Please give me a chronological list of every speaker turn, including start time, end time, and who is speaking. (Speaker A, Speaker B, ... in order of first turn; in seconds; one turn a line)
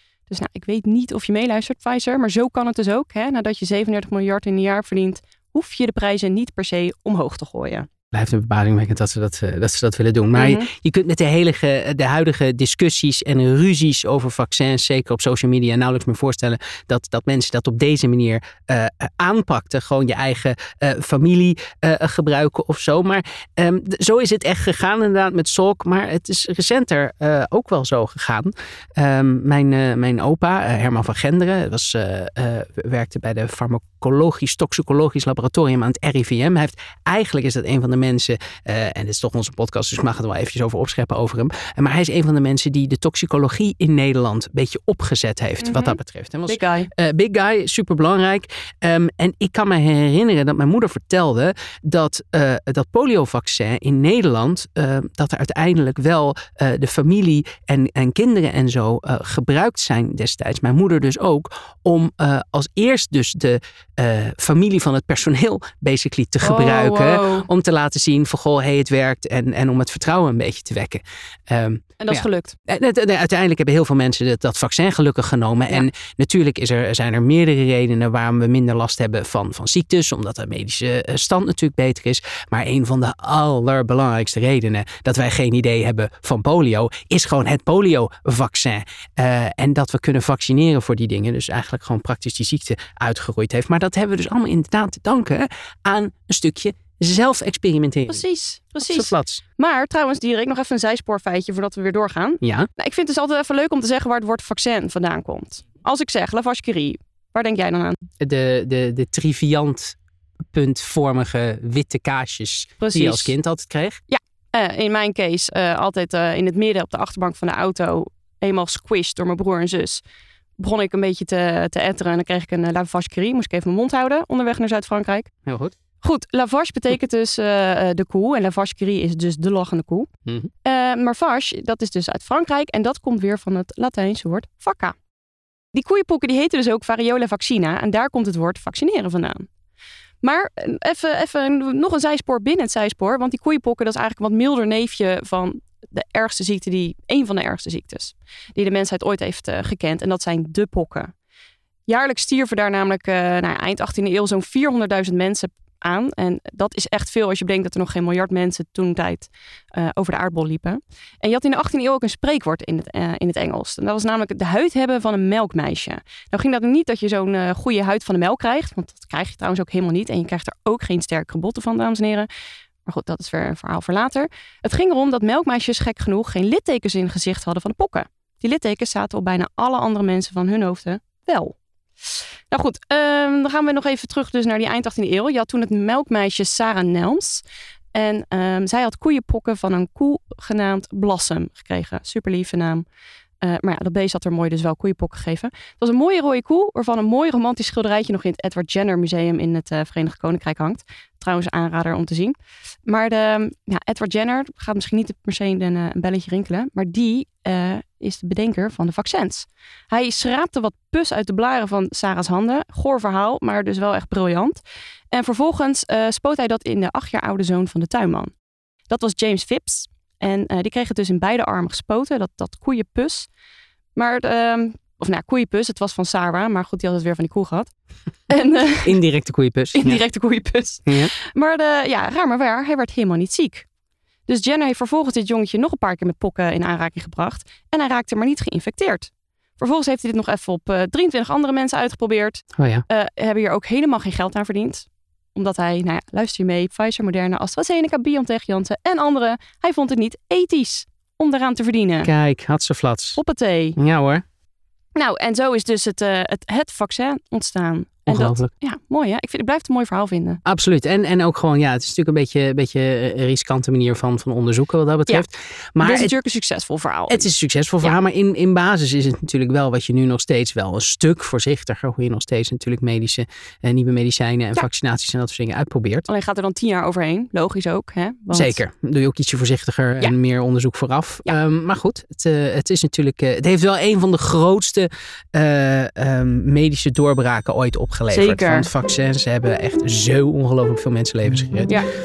Speaker A: 0.3-7.9
Speaker B: 8.1-98.2
Speaker A: 10.3-10.7
Speaker A: 45.6-46.9
Speaker A: 66.4-67.5
Speaker A: 72.0-72.5
Speaker A: 98.1-108.0
Speaker B: 98.8-99.4
Speaker B: 102.4-102.7
Speaker B: 108.2-110.0
Speaker B: 110.5-114.0
Speaker A: 112.8-113.3
Speaker A: 114.1-120.0
Speaker A: 120.6-125.3
Speaker B: 125.5-125.7
Speaker A: 126.0-130.1
Speaker A: 130.7-135.0
Speaker A: 135.7-139.5
Speaker A: 140.2-151.1
Speaker A: 151.9-172.3
Speaker A: 172.9-181.6
Speaker A: 182.5-187.4
Speaker A: 187.9-192.8
Speaker A: 193.4-214.6
Speaker A: 215.1-218.3
Speaker A: 218.9-223.3
Speaker A: 224.0-227.7
Speaker A: 228.3-229.0
Speaker B: 228.8-230.1
Speaker A: 229.8-233.7
Speaker B: 230.9-231.1
Speaker A: 234.3-252.1
Speaker B: 242.6-242.8
Speaker B: 252.0-253.2
Speaker A: 253.2-253.8
Speaker B: 253.8-254.2
Speaker A: 255.0-260.4
Speaker B: 258.1-258.5
Speaker B: 260.4-266.1
Speaker A: 265.8-267.3
Speaker B: 267.1-276.1
Speaker A: 276.1-278.6
Speaker B: 278.3-291.8
Speaker A: 288.1-288.7